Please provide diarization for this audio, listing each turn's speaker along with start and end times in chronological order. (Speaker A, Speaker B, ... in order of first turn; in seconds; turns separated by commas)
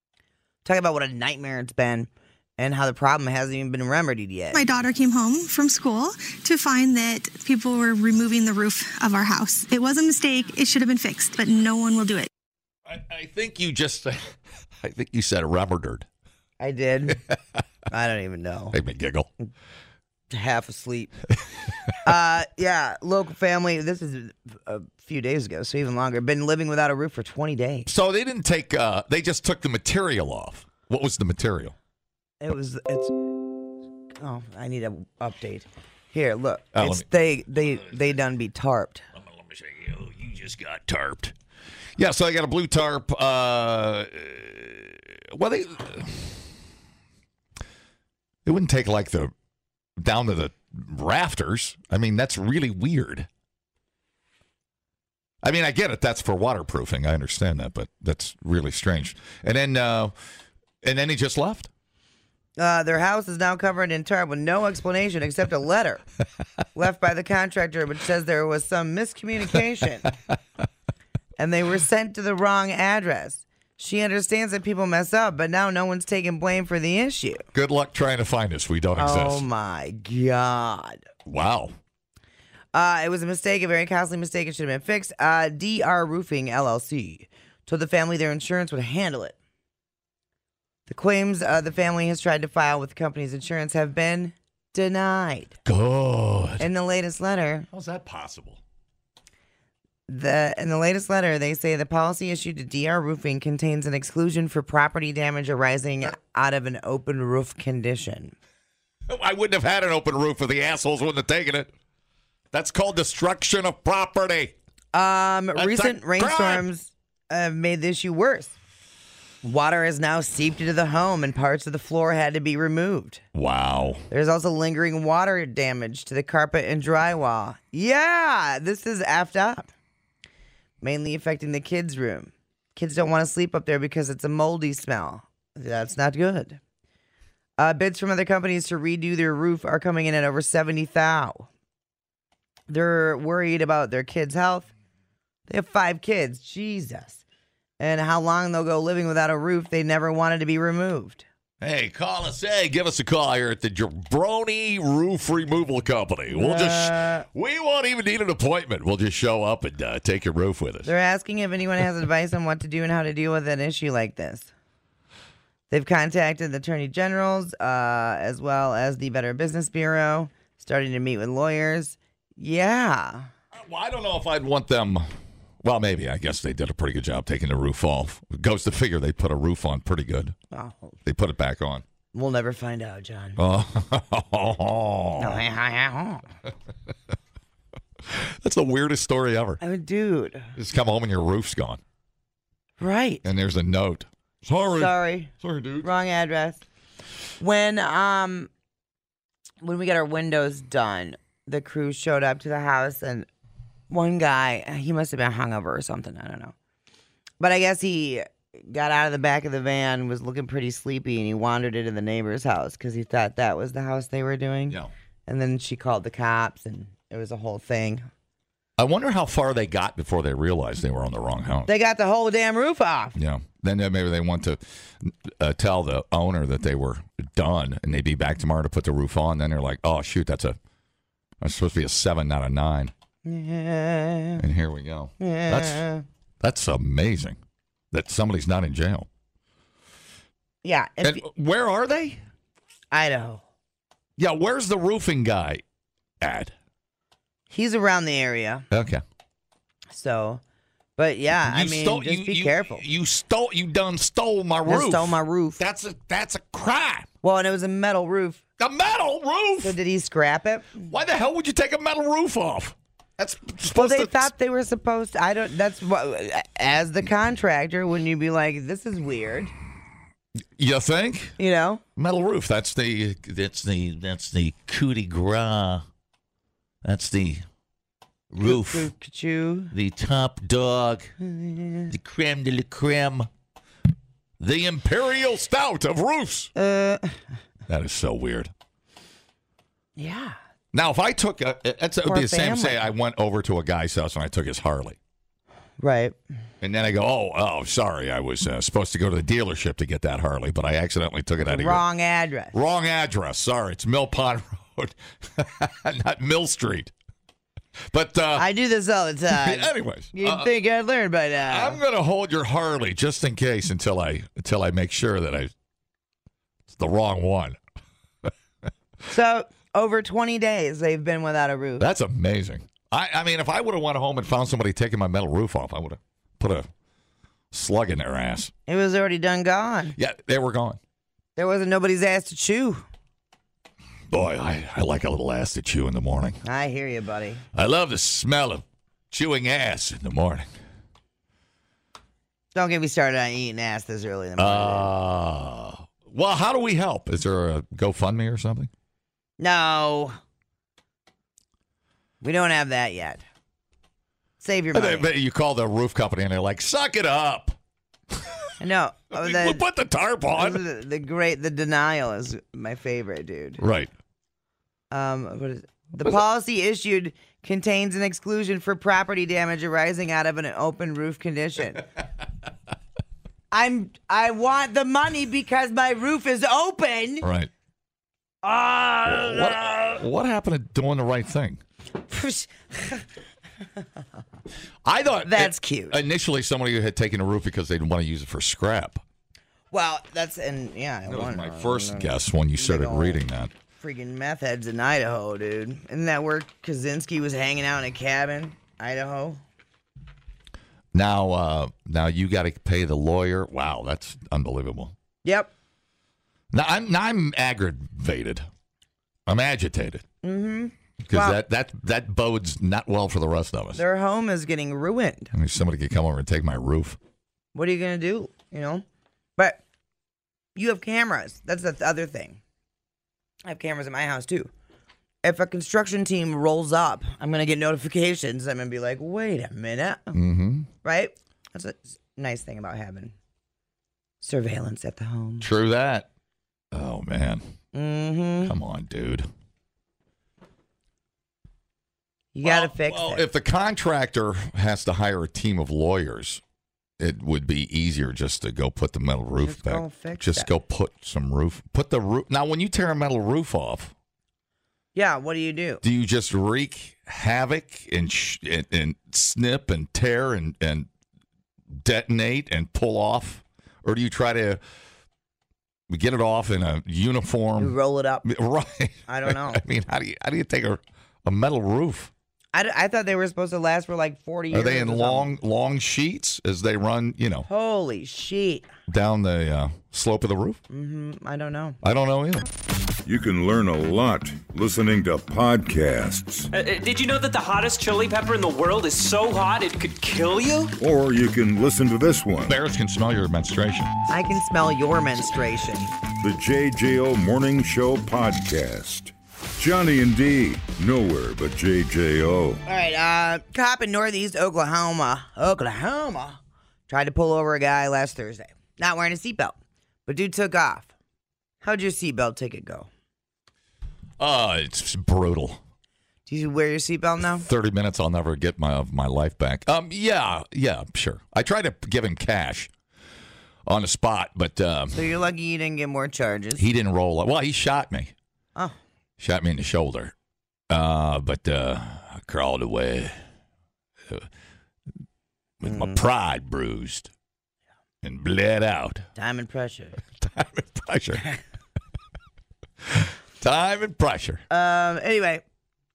Speaker A: 0.7-4.6, Speaker B: 4.5-12.3, Speaker C: 12.9-16.1, Speaker A: 16.6-17.2, Speaker A: 17.9-18.8, Speaker C: 18.7-19.3, Speaker A: 20.3-21.1, Speaker A: 22.0-27.9, Speaker C: 27.9-31.8, Speaker A: 32.4-33.4, Speaker A: 34.2-39.0, Speaker C: 36.8-37.1, Speaker C: 39.2-41.3, Speaker C: 42.0-46.5, Speaker C: 48.5-49.3, Speaker C: 50.0-53.3, Speaker C: 55.4-60.1, Speaker C: 60.8-61.7, Speaker A: 62.6-66.0, Speaker A: 66.8-70.1, Speaker A: 71.4-77.5, Speaker C: 77.5-79.5, Speaker A: 79.0-81.0, Speaker C: 81.3-81.8, Speaker A: 82.7-89.4, Speaker A: 90.9-95.6, Speaker C: 95.7-96.7, Speaker A: 96.6-97.7, Speaker C: 97.7-98.6, Speaker A: 100.1-108.3, Speaker C: 109.1-111.7, Speaker C: 112.5-114.5, Speaker A: 114.9-118.5, Speaker C: 115.5-116.7, Speaker A: 119.4-123.2, Speaker C: 123.3-124.0, Speaker A: 124.1-129.7, Speaker A: 130.8-136.6, Speaker A: 137.6-141.5, Speaker A: 142.7-144.7, Speaker A: 145.5-147.2, Speaker A: 147.8-151.2, Speaker C: 151.6-160.9, Speaker A: 156.3-157.3, Speaker A: 160.8-164.5, Speaker A: 165.7-173.3, Speaker C: 173.5-175.1, Speaker C: 175.6-180.3, Speaker A: 180.5-181.0, Speaker C: 181.1-181.8, Speaker A: 182.1-183.4, Speaker C: 183.4-185.4, Speaker A: 185.2-186.3, Speaker C: 188.1-189.6, Speaker A: 189.6-190.5, Speaker C: 190.6-191.8, Speaker A: 192.8-193.2, Speaker C: 193.2-195.9, Speaker A: 194.8-196.6, Speaker A: 197.4-198.5, Speaker A: 199.6-203.3, Speaker A: 203.9-206.5, Speaker A: 207.4-218.1, Speaker C: 218.8-221.7, Speaker A: 221.7-223.2, Speaker C: 223.2-230.6, Speaker C: 231.4-232.9, Speaker A: 233.2-234.4, Speaker C: 234.4-235.8, Speaker A: 235.2-236.1, Speaker C: 236.4-237.4, Speaker C: 237.9-239.1, Speaker A: 240.6-241.2, Speaker C: 241.0-242.2, Speaker A: 242.9-243.4, Speaker C: 244.2-245.6, Speaker C: 246.2-246.5, Speaker A: 247.5-248.7, Speaker C: 248.7-249.0, Speaker A: 249.9-250.4, Speaker A: 251.0-252.8, Speaker C: 251.4-257.1, Speaker A: 254.7-255.6, Speaker A: 257.2-258.4, Speaker C: 258.6-259.8, Speaker A: 259.6-260.9, Speaker C: 260.9-264.3, Speaker A: 263.7-269.5, Speaker C: 270.6-271.4, Speaker A: 271.4-271.8, Speaker C: 272.0-275.9, Speaker C: 276.8-277.5, Speaker C: 278.3-278.9, Speaker A: 278.4-279.7, Speaker C: 279.7-281.1, Speaker A: 281.2-281.9, Speaker C: 281.9-283.3, Speaker C: 284.4-286.5, Speaker A: 286.6-287.2, Speaker C: 287.7-288.5, Speaker A: 290.0-290.4, Speaker C: 290.7-295.0, Speaker A: 292.1-292.8, Speaker A: 295.8-296.2, Speaker C: 296.6-301.9, Speaker A: 301.4-302.5, Speaker C: 302.5-306.9, Speaker C: 307.9-308.5, Speaker A: 308.4-311.8, Speaker C: 309.3-310.5, Speaker C: 311.5-315.5, Speaker C: 316.7-317.6, Speaker A: 319.1-321.9, Speaker C: 321.8-326.7, Speaker C: 327.5-328.5, Speaker A: 328.7-330.0, Speaker C: 330.0-330.8, Speaker A: 331.4-332.8, Speaker C: 334.1-336.4, Speaker A: 336.4-337.4, Speaker C: 337.5-340.5, Speaker A: 342.5-344.9, Speaker C: 344.4-348.7, Speaker A: 349.4-350.2, Speaker A: 352.2-353.2, Speaker A: 354.4-355.1, Speaker C: 354.7-357.6, Speaker C: 358.1-358.4, Speaker A: 358.6-359.6, Speaker C: 359.1-360.6, Speaker A: 360.4-363.6, Speaker C: 363.6-363.9, Speaker A: 364.9-371.9, Speaker A: 373.5-377.3, Speaker C: 377.2-377.5, Speaker A: 378.4-380.0, Speaker C: 379.0-381.6, Speaker A: 382.1-383.1, Speaker C: 384.9-389.0, Speaker A: 385.2-386.0, Speaker A: 389.7-393.2, Speaker C: 391.1-393.5, Speaker A: 393.8-399.4, Speaker C: 400.9-404.9, Speaker A: 405.2-405.5, Speaker C: 406.5-408.5, Speaker C: 409.3-410.0, Speaker A: 410.2-411.4, Speaker C: 411.0-413.8, Speaker A: 413.8-415.3, Speaker C: 415.3-417.0, Speaker A: 417.5-418.8, Speaker A: 420.6-422.4, Speaker A: 423.4-424.5, Speaker A: 425.2-430.2, Speaker C: 430.1-430.7, Speaker A: 430.8-433.1, Speaker A: 434.2-435.5, Speaker C: 435.4-436.1, Speaker C: 436.7-437.5, Speaker A: 437.7-438.6, Speaker C: 438.4-439.3, Speaker A: 442.3-443.2, Speaker C: 442.4-446.4, Speaker C: 447.0-453.9, Speaker A: 449.4-450.5, Speaker A: 454.9-455.8, Speaker C: 455.8-460.9, Speaker C: 461.7-464.6, Speaker C: 465.9-472.1, Speaker A: 467.6-468.2, Speaker A: 469.1-469.6, Speaker A: 472.5-475.3, Speaker C: 474.5-477.5, Speaker A: 477.5-478.7, Speaker C: 478.9-480.6, Speaker A: 480.7-481.8, Speaker C: 481.8-482.5, Speaker D: 483.1-486.5, Speaker E: 486.5-490.7, Speaker D: 490.8-492.6, Speaker C: 492.5-493.9, Speaker A: 494.1-495.9, Speaker D: 496.2-502.6, Speaker A: 502.7-510.9, Speaker A: 511.6-512.9, Speaker C: 514.2-515.6, Speaker A: 516.3-517.5, Speaker C: 517.4-522.7, Speaker C: 523.7-525.0, Speaker A: 524.9-526.6, Speaker C: 526.6-528.1, Speaker C: 529.2-530.1, Speaker C: 530.7-533.2, Speaker C: 535.6-537.1, Speaker A: 535.6-536.0, Speaker C: 538.0-539.1, Speaker A: 539.2-540.0, Speaker C: 540.2-541.3, Speaker C: 542.8-544.4, Speaker A: 544.5-545.4